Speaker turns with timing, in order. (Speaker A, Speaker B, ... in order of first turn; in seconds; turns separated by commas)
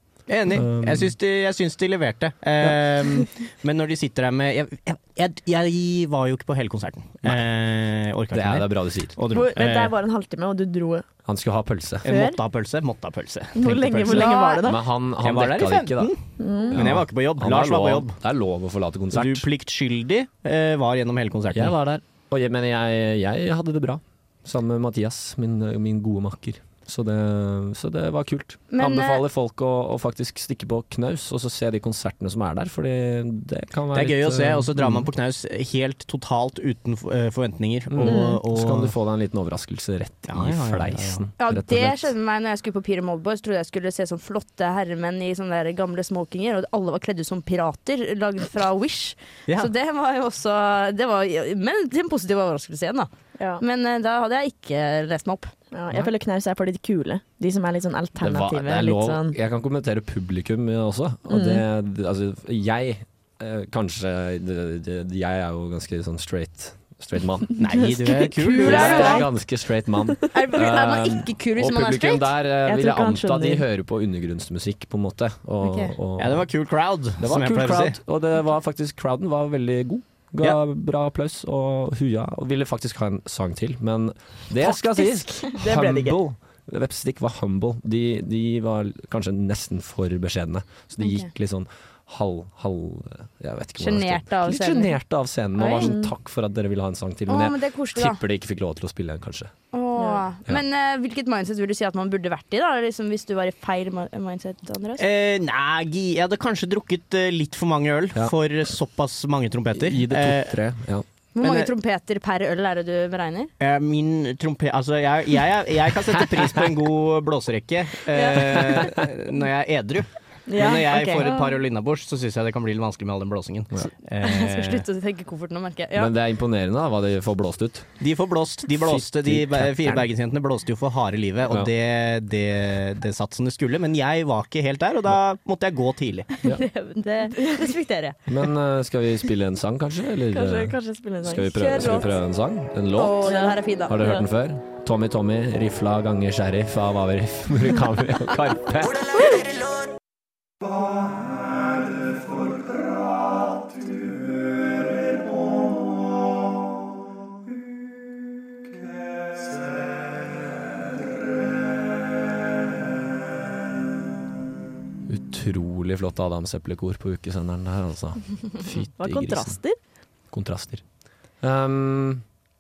Speaker A: 0.3-9.9, Speaker B: 0.5-1.1, Speaker B: 8.3-9.2, Speaker C: 9.3-11.1, Speaker B: 11.2-12.1, Speaker A: 12.0-14.4, Speaker C: 12.1-12.4, Speaker C: 13.6-14.8, Speaker D: 14.1-14.6, Speaker B: 14.6-16.1, Speaker A: 15.2-18.2, Speaker C: 16.4-16.9, Speaker B: 16.7-19.5, Speaker A: 19.1-21.7, Speaker B: 21.5-35.1, Speaker D: 28.7-29.2, Speaker A: 33.9-38.9, Speaker B: 37.9-42.1, Speaker C: 38.0-38.4, Speaker A: 40.3-41.3, Speaker D: 41.4-53.1, Speaker C: 53.4-53.6, Speaker D: 53.6-55.5, Speaker C: 55.7-59.4, Speaker B: 58.2-67.8, Speaker C: 61.3-61.6, Speaker A: 67.6-69.2, Speaker C: 67.8-69.2, Speaker D: 68.5-69.2, Speaker B: 68.6-76.5, Speaker D: 70.3-72.3, Speaker C: 72.7-73.6, Speaker D: 75.6-75.9, Speaker A: 76.2-78.0, Speaker B: 77.2-99.5, Speaker D: 84.7-85.5, Speaker C: 85.5-86.2, Speaker D: 91.0-91.3, Speaker D: 93.8-95.0, Speaker C: 95.6-96.1, Speaker D: 97.3-98.2, Speaker D: 99.7-105.0, Speaker C: 100.0-100.2, Speaker A: 105.0-110.6, Speaker B: 109.8-111.0, Speaker D: 111.4-113.5, Speaker A: 111.4-111.7, Speaker A: 113.6-124.8, Speaker D: 118.1-118.9, Speaker C: 120.5-121.5, Speaker D: 124.2-126.1, Speaker B: 126.0-128.0, Speaker A: 128.0-136.3, Speaker B: 128.8-130.1, Speaker D: 136.4-138.2, Speaker B: 138.3-149.1, Speaker C: 140.3-142.1, Speaker D: 141.6-142.1, Speaker D: 142.9-144.0, Speaker C: 143.2-144.2, Speaker B: 165.1-169.6, Speaker C: 169.0-169.8, Speaker B: 170.3-170.8, Speaker B: 171.4-172.2